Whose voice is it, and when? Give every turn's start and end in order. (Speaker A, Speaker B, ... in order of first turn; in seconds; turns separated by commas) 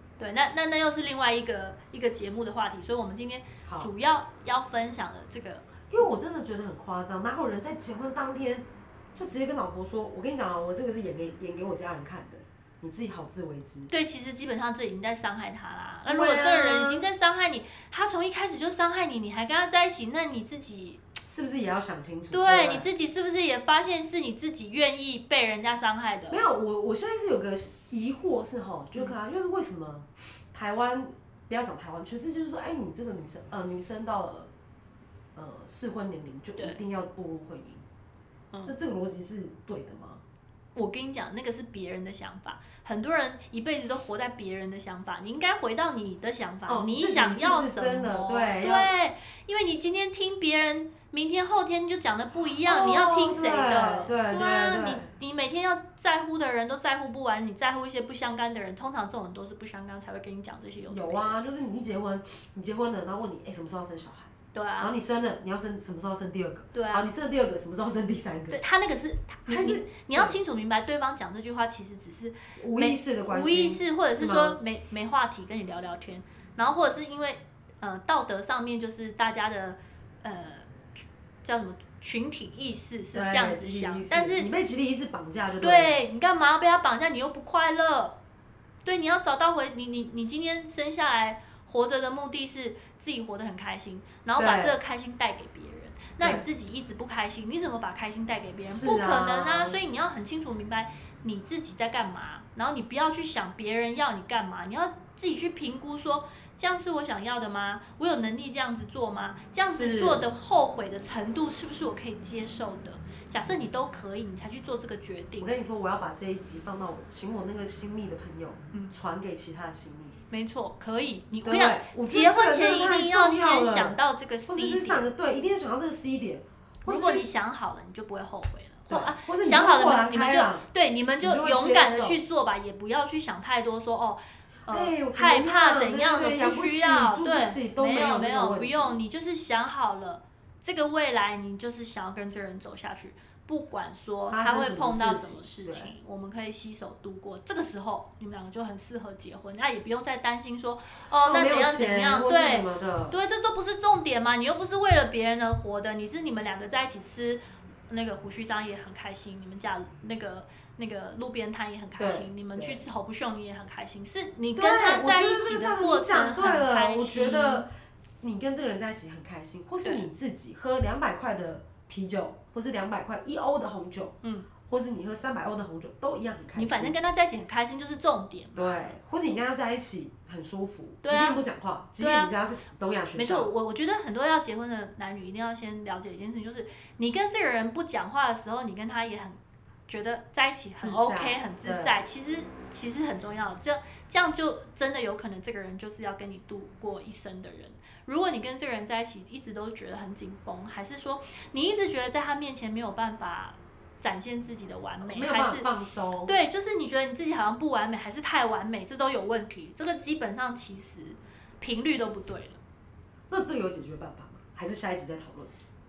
Speaker A: 0.2-5.7, Speaker B: 3.6-3.9, Speaker B: 5.9-13.9, Speaker A: 13.9-21.0, Speaker B: 16.1-17.1, Speaker B: 21.2-22.9, Speaker A: 22.3-26.4, Speaker B: 26.3-34.5, Speaker B: 35.3-37.8, Speaker B: 38.6-40.2, Speaker A: 40.7-61.4, Speaker B: 46.7-48.9, Speaker B: 52.6-55.1, Speaker B: 60.9-68.6, Speaker A: 64.5-64.9, Speaker A: 66.7-67.1, Speaker A: 68.5-84.5, Speaker B: 69.5-70.4, Speaker B: 72.5-74.6, Speaker B: 83.1-86.0, Speaker A: 85.6-88.2, Speaker A: 88.8-115.5, Speaker B: 94.3-94.8, Speaker B: 96.2-96.4, Speaker B: 98.6-99.8, Speaker B: 109.6-110.2, Speaker B: 115.4-120.2, Speaker A: 120.3-125.0, Speaker B: 121.4-127.2, Speaker A: 126.8-167.7, Speaker B: 128.9-130.7, Speaker B: 131.2-132.2, Speaker B: 134.7-139.0, Speaker B: 144.3-145.9, Speaker B: 151.2-153.2, Speaker B: 162.0-162.8, Speaker B: 164.6-174.1, Speaker A: 174.2-174.5, Speaker B: 174.7-176.9, Speaker A: 176.5-178.9, Speaker B: 178.5-183.5, Speaker A: 181.0-181.4, Speaker A: 182.0-182.3, Speaker A: 183.2-205.7, Speaker B: 190.8-191.9, Speaker B: 205.0-206.3, Speaker A: 206.2-212.6, Speaker B: 213.3-215.5